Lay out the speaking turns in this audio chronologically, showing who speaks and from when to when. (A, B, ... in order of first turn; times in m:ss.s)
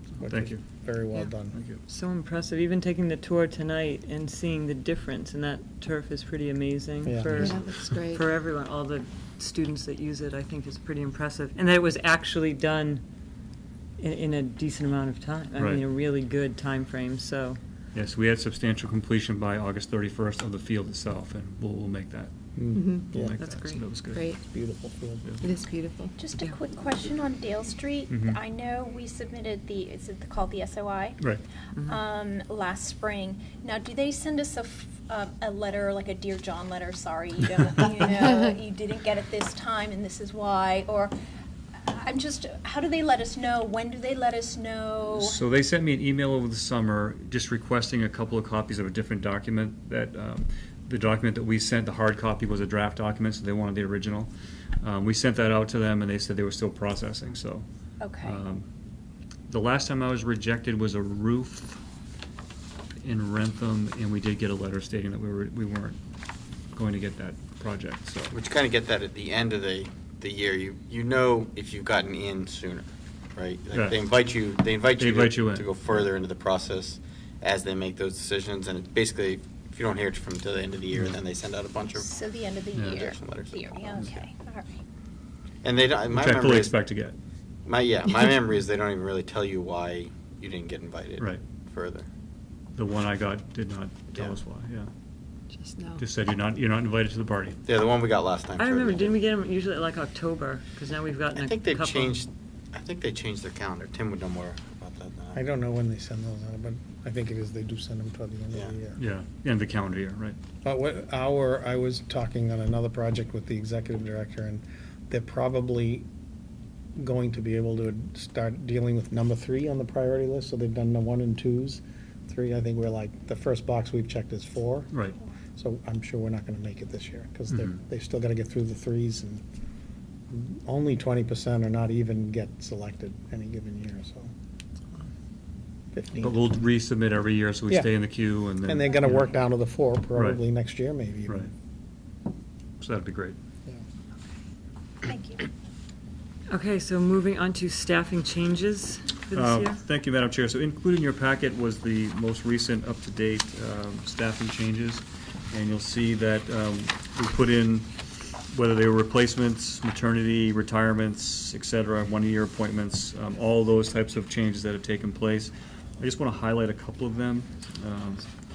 0:00.2-0:01.6 A
0:00.2-0:00.6 B
0:01.5-0:01.8 B
0:01.9-0:13.0 C
0:07.1-0:07.6 A
0:07.4-0:08.2 D
0:14.0-0:17.6 C
0:15.6-0:15.8 B
0:17.9-0:22.3 B
0:22.6-0:23.4 A
0:22.8-0:23.1 D
0:23.1-0:24.3 B
0:23.4-0:23.8 C
0:23.7-0:24.4 D
0:24.4-0:25.3 A
0:25.4-0:26.1 D
0:26.2-0:41.2 E
0:28.1-0:28.4 B
0:41.8-0:45.4 E
0:45.1-0:54.3 B
0:54.8-0:57.6 B
0:58.0-0:58.4 E
0:58.2-0:58.7 B
0:59.5-1:01.8 B
1:03.0-1:06.0 B
1:06.7-1:08.3 B
1:08.3-1:22.2 F
1:13.7-1:14.0 B
1:15.0-1:15.7 B
1:22.0-1:24.8 E
1:22.8-1:23.0 B
1:23.0-1:23.9 F
1:25.6-1:26.8 F
1:26.1-1:27.2 B
1:27.7-1:32.1 F
1:32.8-1:34.9 B
1:35.6-1:36.0 D
1:36.0-1:37.6 B
1:37.6-1:39.1 F
1:38.6-1:42.2 C
1:41.4-1:45.4 F
1:45.4-1:49.0 A
1:49.0-1:50.4 B
1:50.6-1:56.1 A
1:57.0-2:04.9 A
2:05.6-2:09.4 A
2:07.5-2:07.8 B
2:10.3-2:14.3 A
2:15.9-2:16.4 A
2:16.2-2:19.3 B
2:18.6-2:21.5 A
2:20.1-2:20.4 B
2:22.8-2:23.4 B
2:25.0-2:25.5 E
2:26.5-2:29.8 C
2:29.3-2:37.9 B
2:38.5-2:48.3 B